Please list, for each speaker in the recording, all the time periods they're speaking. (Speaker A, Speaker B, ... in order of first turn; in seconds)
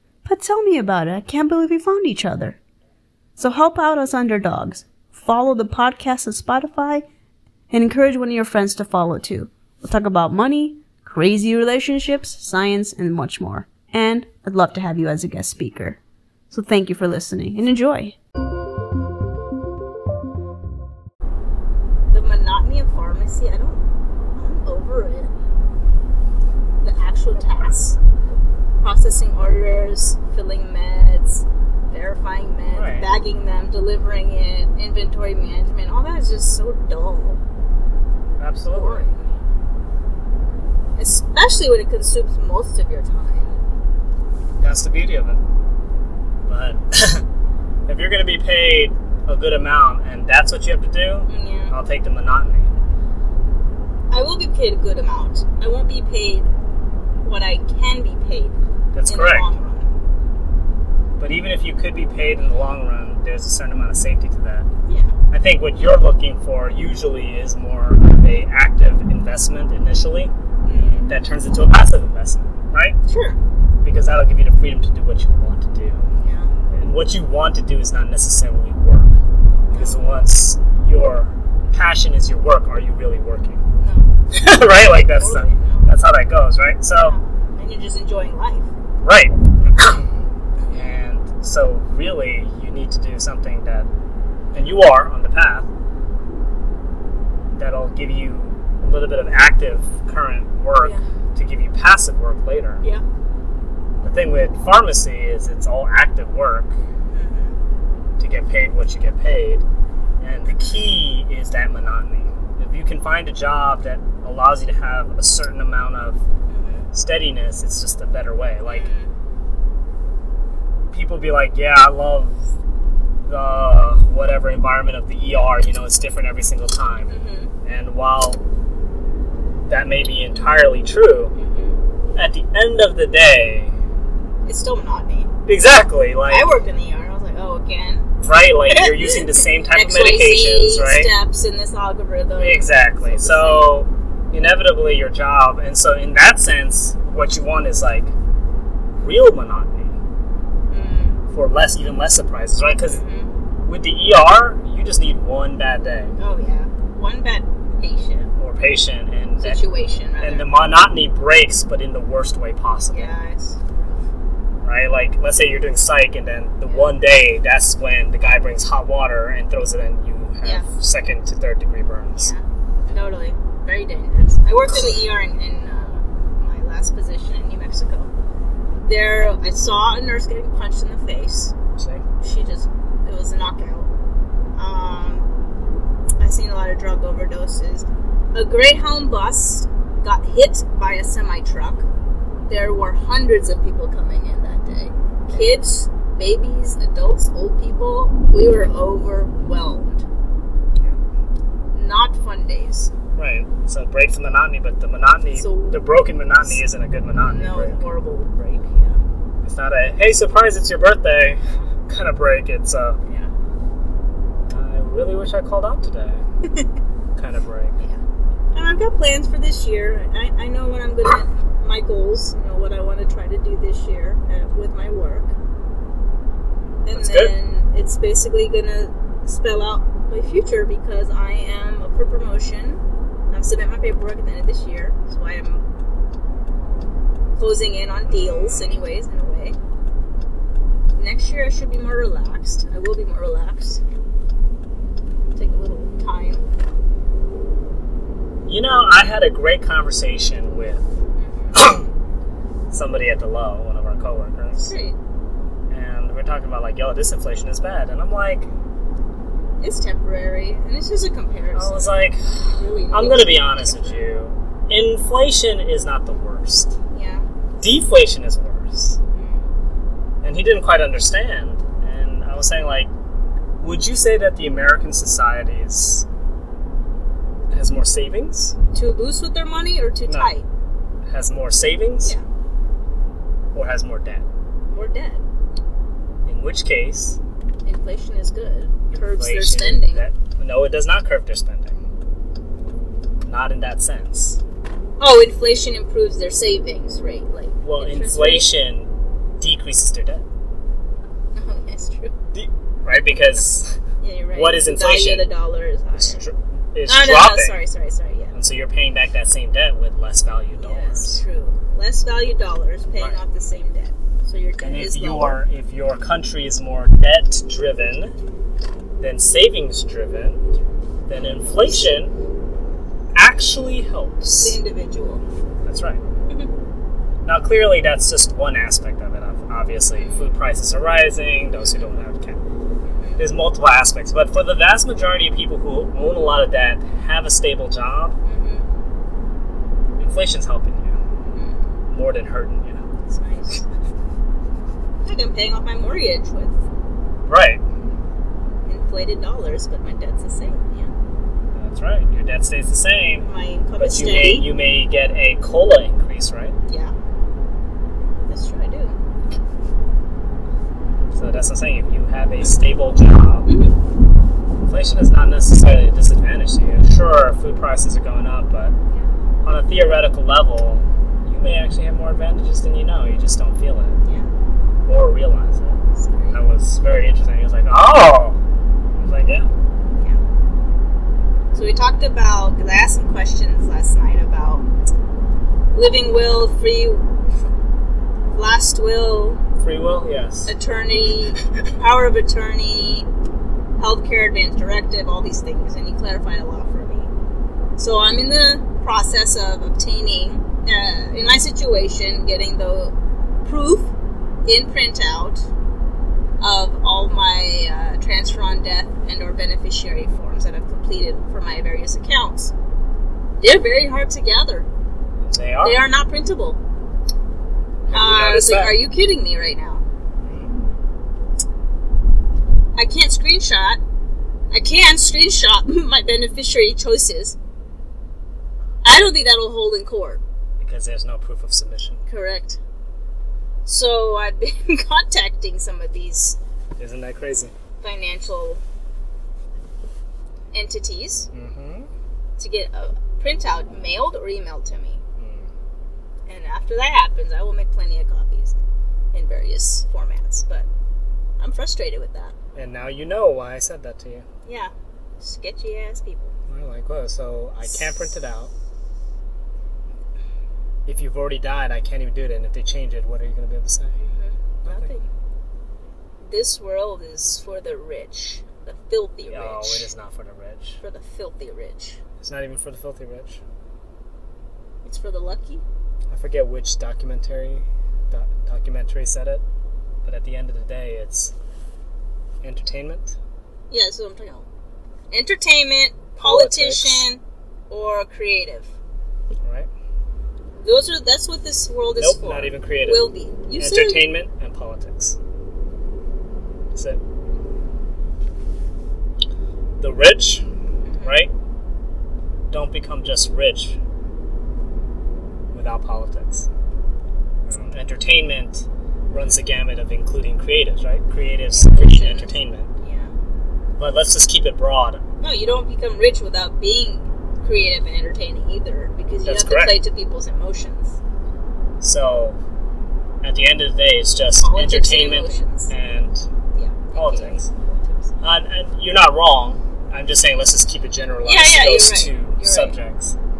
Speaker A: 0.2-2.6, 3.4-7.0, 7.7-16.0, 16.5-18.1
Speaker B: 22.1-23.8, 24.4-25.3, 26.8-28.0, 28.8-37.4, 38.7-39.3, 41.0-43.5, 51.3-51.8, 54.1-56.5, 57.2-59.9, 64.9-65.2, 70.7-71.2, 73.1-73.4, 76.2-76.5, 79.7-80.2, 83.8-84.1, 84.8-85.9, 87.0-88.7, 90.6-91.0, 100.8-101.0, 107.1-107.6, 116.5-116.9, 118.7-119.1, 127.1-127.5, 131.3-131.8, 134.5-135.3, 136.3-138.1, 138.7-143.7, 150.7-151.2, 152.9-153.3, 156.2-158.3, 159.4-160.5, 162.9-163.6, 166.7-166.9, 172.2-178.1, 178.8-181.5, 182.2-183.9, 184.6-185.3, 186.2-191.8, 192.5-200.1, 201.7-202.9, 205.4-205.9, 207.2-209.0, 211.4-211.7, 218.5-225.3, 226.8-235.7, 237.4-239.6, 241.0-243.8, 245.3-246.4, 251.2-251.6, 254.5-255.0, 259.6-264.0, 266.9-267.3, 269.1-269.5, 278.7-280.5, 284.7-285.2, 287.6-290.1, 295.0-298.5, 301.4-302.1, 304.0-306.3, 306.9-308.4, 310.6-315.4, 321.1-321.9, 324.4-325.2, 329.9-330.4, 331.6-332.0, 332.8-333.2, 338.2-338.7, 341.3-341.7, 343.1-343.7, 345.1-346.6, 348.7-350.9, 353.2-354.5, 356.7-356.9, 358.3-359.0, 363.5-363.8, 374.0-374.3, 375.9-376.4, 381.5-384.7, 385.7-387.1, 388.3-389.4, 390.5-393.1, 393.8-397.1, 397.8-403.9, 404.5-405.5, 406.4-412.5, 413.4-414.7, 415.6-416.6, 417.9-419.8, 422.8-423.8, 424.5-427.4, 428.8-430.2, 432.1-432.6, 433.7-436.4, 437.8-438.6, 440.5-441.3, 442.4-445.0, 446.3-448.6, 449.1-450.7, 451.4-452.4, 454.4-456.4, 457.6-457.9, 464.0-465.1, 466.2-469.9, 470.8-472.0, 474.8-475.6, 483.7-484.5, 485.1-488.7, 490.6-494.0, 500.9-501.3, 511.5-513.1, 515.2-521.0, 524.4-525.7, 526.5-528.2, 531.2-532.8
Speaker C: 27.4-27.7, 32.7-33.1, 38.4-39.0, 44.6-45.4, 46.5-47.2, 47.9-52.7, 58.9-59.5, 61.2-64.7, 65.3-70.3, 71.1-73.0, 73.8-76.1, 76.7-79.2, 79.7-83.6, 84.3-87.2, 89.0-90.1, 90.7-93.9, 94.5-95.7, 97.5-102.8, 104.0-106.8, 108.2-109.7, 110.2-116.2, 116.9-118.9, 120.9-122.5, 123.2-128.4, 129.7-131.3, 132.2-133.7, 135.5-136.5, 138.2-141.1, 142.4-148.1, 149.0-150.0, 151.3-153.0, 153.7-156.2, 158.4-159.6, 160.2-163.2, 164.6-172.3, 181.8-182.0, 203.2-207.9, 209.4-213.0, 214.5-216.2, 217.2-217.8, 226.9-227.3, 238.1-238.8, 248.5-250.9, 251.5-251.9, 252.7-254.7, 255.7-258.5, 261.5-266.8, 267.6-269.0, 270.2-272.9, 273.6-276.1, 277.5-278.6, 280.1-280.3, 281.1-282.1, 283.5-284.3, 286.3-287.2, 288.9-291.8, 293.2-294.4, 297.6-300.2, 302.3-303.8, 304.4-305.3, 306.0-307.6, 308.3-311.2, 314.6-318.2, 319.0-322.1, 323.1-324.6, 325.6-326.0, 327.2-332.4, 333.2-338.2, 340.0-341.0, 341.9-342.9, 347.3-347.6, 351.5-353.3, 353.8-356.6, 361.1-363.5, 364.7-368.8, 369.4-374.0, 374.9-375.8, 376.3-378.4, 379.0-379.5, 389.6-390.5, 415.2-415.8, 417.9-418.8, 420.2-420.6, 430.6-432.1, 436.8-437.5, 441.3-441.9, 445.2-445.5, 452.5-454.2, 456.5-458.5, 460.9-464.0, 464.6-464.9, 469.3-470.8, 472.2-473.4, 476.1-479.4, 480.0-481.3, 482.4-483.2, 486.2-487.1, 489.4-489.7, 492.0-495.2, 496.7-497.0, 499.8-500.4, 501.0-501.3, 502.5-503.8, 505.5-506.5, 507.5-512.7, 513.8-515.0, 519.2-519.8, 521.8-522.4, 523.2-526.3, 527.0-527.5, 528.2-533.2